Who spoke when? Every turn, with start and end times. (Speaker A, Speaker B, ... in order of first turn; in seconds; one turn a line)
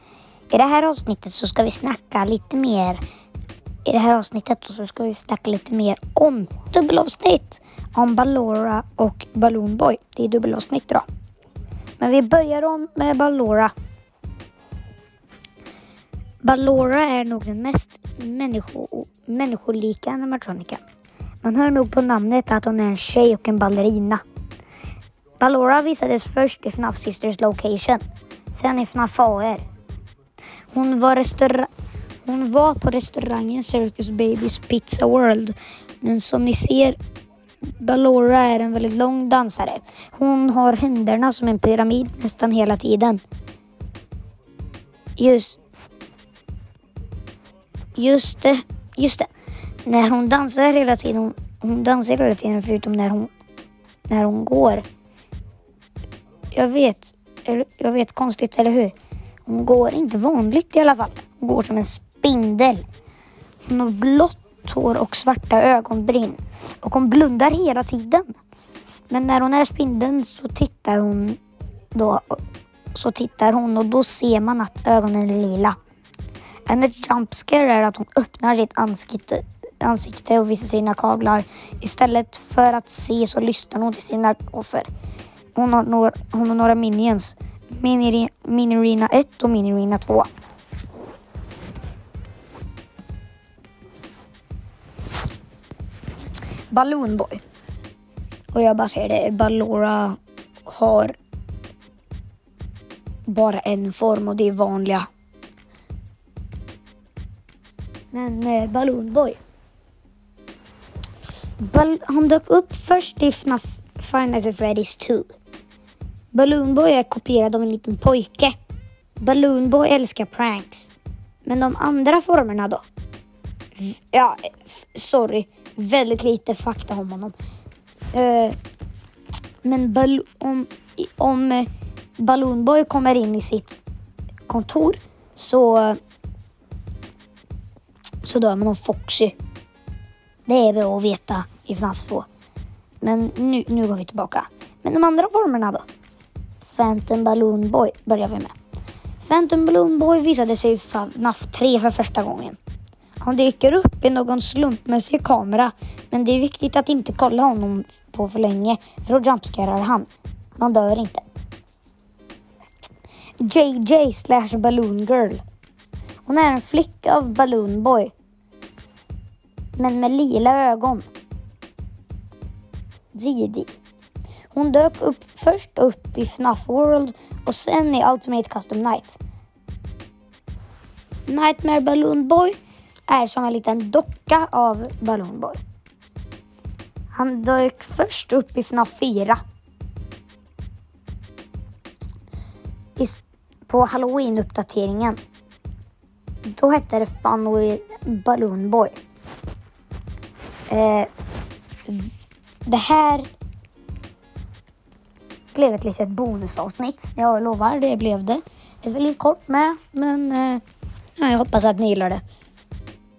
Speaker A: 0.5-3.0
Speaker A: 3.9-11.1
Speaker A: 12.0-13.7
Speaker A: 16.4-20.8
Speaker A: 21.4-24.2
Speaker A: 25.4-29.6
Speaker A: 30.7-31.7
Speaker A: 32.2-37.0
Speaker A: 37.8-43.2
Speaker A: 45.2-45.6
Speaker A: 48.0-49.3
Speaker A: 49.8-53.3
Speaker A: 54.1-54.8
Speaker A: 56.5-58.9
Speaker A: 59.5-62.8
Speaker A: 63.7-68.3
Speaker A: 69.1-71.4
Speaker A: 71.9-72.4
Speaker A: 72.9-75.8
Speaker A: 76.7-84.9
Speaker A: 85.5-90.3
Speaker A: 96.7-97.4
Speaker A: 98.5-101.2
Speaker A: 103.3-105.1
Speaker A: 108.1-109.4
Speaker A: 111.6-115.3
Speaker A: 116.3-118.5
Speaker A: 119.2-120.9
Speaker A: 121.5-122.8
Speaker A: 123.8-127.3
Speaker A: 128.1-128.6
Speaker A: 129.6-133.8
Speaker A: 134.5-136.0
Speaker A: 138.2-139.3
Speaker A: 140.5-142.3
Speaker A: 143.0-145.8
Speaker A: 146.6-148.6
Speaker A: 149.2-152.6
Speaker A: 153.2-161.2
Speaker A: 163.4-165.4
Speaker A: 166.2-168.1
Speaker A: 169.8-171.1
Speaker A: 173.1-173.7
Speaker A: 174.5-179.2
Speaker A: 181.3-182.6
Speaker A: 183.1-185.6
Speaker A: 187.1-189.4
Speaker A: 193.0-195.2
Speaker A: 196.5-199.0
Speaker A: 200.7-201.1
Speaker A: 202.7-203.3
Speaker A: 205.5-210.6
Speaker A: 211.2-212.2